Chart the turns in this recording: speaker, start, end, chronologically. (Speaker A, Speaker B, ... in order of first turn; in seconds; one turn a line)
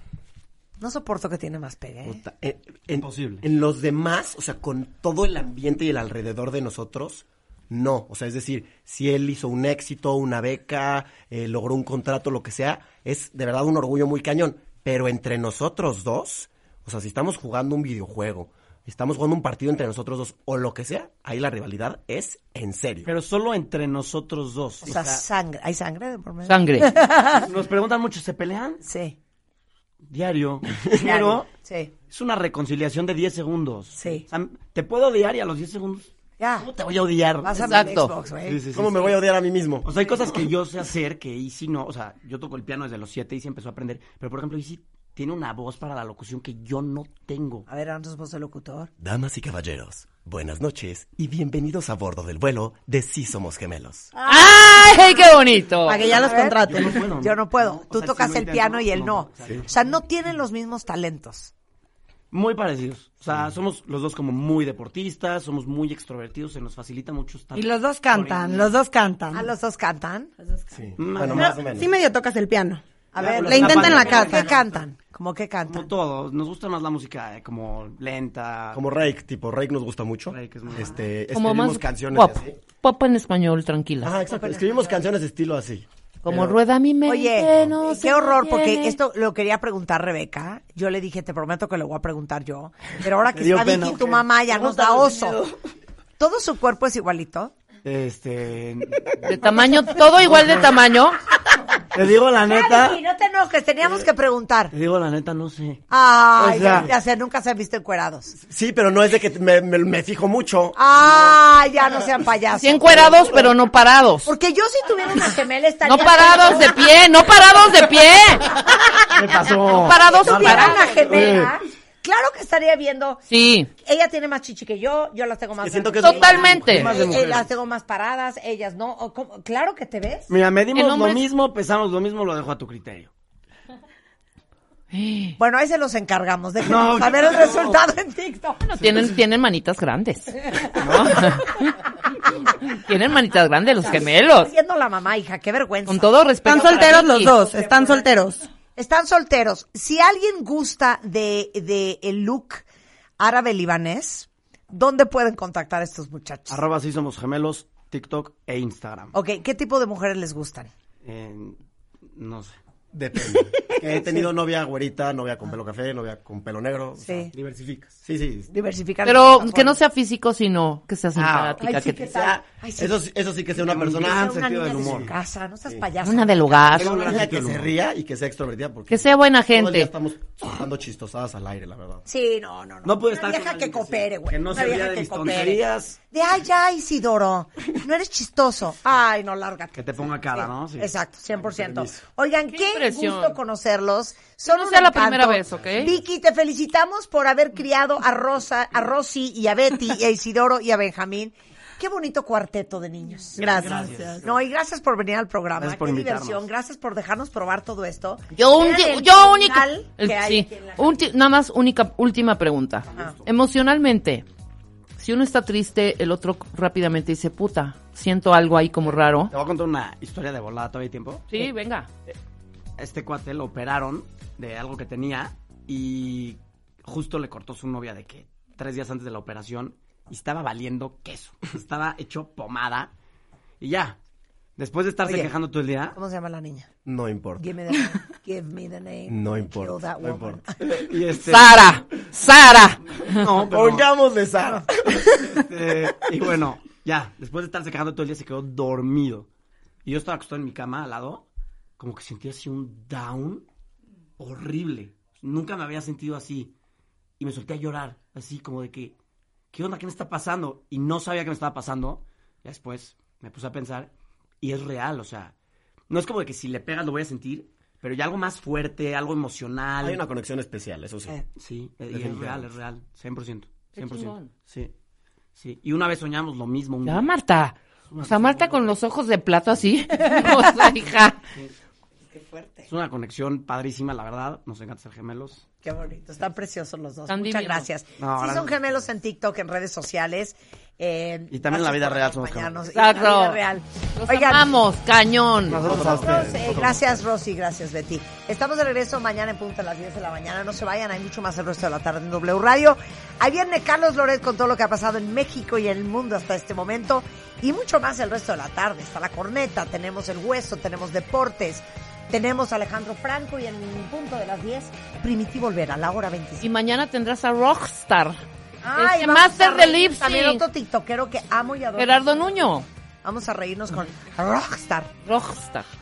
Speaker A: 0.8-2.2
Speaker B: 2.0-23.1
Speaker C: 3.0-3.4
Speaker C: 23.0-25.2
Speaker A: 24.8-27.5
Speaker D: 26.4-26.9
Speaker C: 27.3-28.8
Speaker A: 28.8-29.2
Speaker C: 30.1-31.5
Speaker B: 30.8-31.1
Speaker A: 30.9-31.9
Speaker C: 32.1-39.2
Speaker A: 33.9-34.2
Speaker A: 36.4-36.7
Speaker A: 37.4-38.6
Speaker D: 37.6-38.1
Speaker B: 38.7-40.3
Speaker C: 39.8-47.7
Speaker A: 47.7-48.9
Speaker B: 49.0-54.1
Speaker D: 54.2-56.0
Speaker A: 54.2-54.6
Speaker E: 55.9-57.0
Speaker A: 55.9-61.5
Speaker C: 56.3-59.7
Speaker C: 62.3-68.7
Speaker E: 67.5-69.5
Speaker A: 69.3-70.3
Speaker B: 70.7-71.9
Speaker C: 71.0-71.6
Speaker E: 71.4-72.8
Speaker A: 73.1-75.9
Speaker C: 73.2-74.7
Speaker B: 73.2-74.1
Speaker E: 73.5-74.4
Speaker C: 75.7-78.8
Speaker B: 78.7-82.6
Speaker C: 80.3-81.0
Speaker D: 81.3-84.1
Speaker B: 84.0-86.6
Speaker A: 84.2-85.0
Speaker D: 86.2-89.0
Speaker A: 87.0-95.4
Speaker C: 93.3-95.5
Speaker A: 96.2-97.5
Speaker C: 97.8-99.4
Speaker D: 99.2-101.2
Speaker C: 100.2-100.7
Speaker C: 101.9-103.0
Speaker A: 102.4-104.7
Speaker C: 104.7-105.8
Speaker A: 105.9-108.3
Speaker C: 106.4-106.9
Speaker B: 106.5-106.9
Speaker B: 108.4-110.8
Speaker A: 110.7-113.5
Speaker D: 112.6-114.3
Speaker A: 114.2-117.0
Speaker D: 115.8-118.5
Speaker C: 119.1-121.5
Speaker D: 119.7-121.0
Speaker A: 119.8-123.2
Speaker D: 123.3-123.7
Speaker A: 123.8-130.3
Speaker B: 125.6-127.1
Speaker D: 126.0-127.0
Speaker C: 126.6-127.5
Speaker C: 130.3-133.1
Speaker D: 130.7-131.2
Speaker D: 134.9-135.3
Speaker A: 135.4-138.7
Speaker C: 136.6-137.8
Speaker D: 138.7-141.8
Speaker C: 138.8-139.1
Speaker D: 142.5-144.5
Speaker A: 143.8-148.1
Speaker D: 145.9-147.4
Speaker E: 146.4-148.4
Speaker A: 148.7-152.6
Speaker A: 153.2-156.6
Speaker C: 156.5-159.1
Speaker A: 159.1-160.7
Speaker C: 161.0-162.6
Speaker B: 162.9-167.3
Speaker A: 163.8-164.3
Speaker A: 167.0-167.3
Speaker C: 167.3-168.0
Speaker B: 168.0-168.5
Speaker A: 168.5-169.8
Speaker D: 169.0-172.1
Speaker C: 171.1-171.6
Speaker A: 171.6-173.0
Speaker B: 172.0-174.3
Speaker C: 173.6-175.1
Speaker A: 173.9-177.3
Speaker D: 176.0-177.2
Speaker C: 176.7-177.7
Speaker B: 176.9-182.0
Speaker D: 178.9-179.9
Speaker A: 182.1-211.1
Speaker C: 182.8-186.0
Speaker C: 189.7-190.9
Speaker B: 191.5-192.0
Speaker D: 192.5-193.3
Speaker D: 194.4-195.9
Speaker E: 203.4-204.2
Speaker C: 203.4-204.3
Speaker C: 205.5-206.5
Speaker D: 208.3-214.2
Speaker A: 212.9-213.2
Speaker C: 212.9-213.2
Speaker D: 215.0-219.3
Speaker C: 219.3-221.5
Speaker D: 221.3-221.9
Speaker C: 222.8-232.9
Speaker C: 233.6-234.0
Speaker C: 234.6-236.0
Speaker A: 235.0-235.3
Speaker A: 235.9-236.7
Speaker B: 236.8-237.4
Speaker A: 237.4-240.6
Speaker B: 239.1-240.7
Speaker C: 240.6-241.8
Speaker D: 241.2-243.3
Speaker C: 243.0-243.9
Speaker B: 243.3-245.3
Speaker C: 245.2-249.3
Speaker C: 249.8-251.3
Speaker C: 251.8-253.4
Speaker C: 254.2-256.5
Speaker C: 257.2-258.9
Speaker C: 259.5-265.3
Speaker C: 265.9-270.1
Speaker B: 269.8-271.2
Speaker C: 271.3-274.7
Speaker B: 271.9-272.5
Speaker D: 273.7-274.3
Speaker C: 275.4-277.1
Speaker D: 276.8-281.2
Speaker C: 277.9-278.7
Speaker A: 280.1-280.5
Speaker A: 282.1-282.7
Speaker C: 282.7-285.5
Speaker A: 285.6-294.6
Speaker D: 287.1-287.7
Speaker C: 288.0-288.8
Speaker C: 291.3-292.6
Speaker D: 292.7-293.4
Speaker D: 294.0-295.7
Speaker B: 295.5-297.0
Speaker C: 295.5-296.6
Speaker A: 295.8-316.5
Speaker D: 316.4-318.2
Speaker A: 318.6-322.3
Speaker D: 318.7-320.4
Speaker D: 321.8-322.6
Speaker A: 323.0-324.9
Speaker D: 325.0-325.6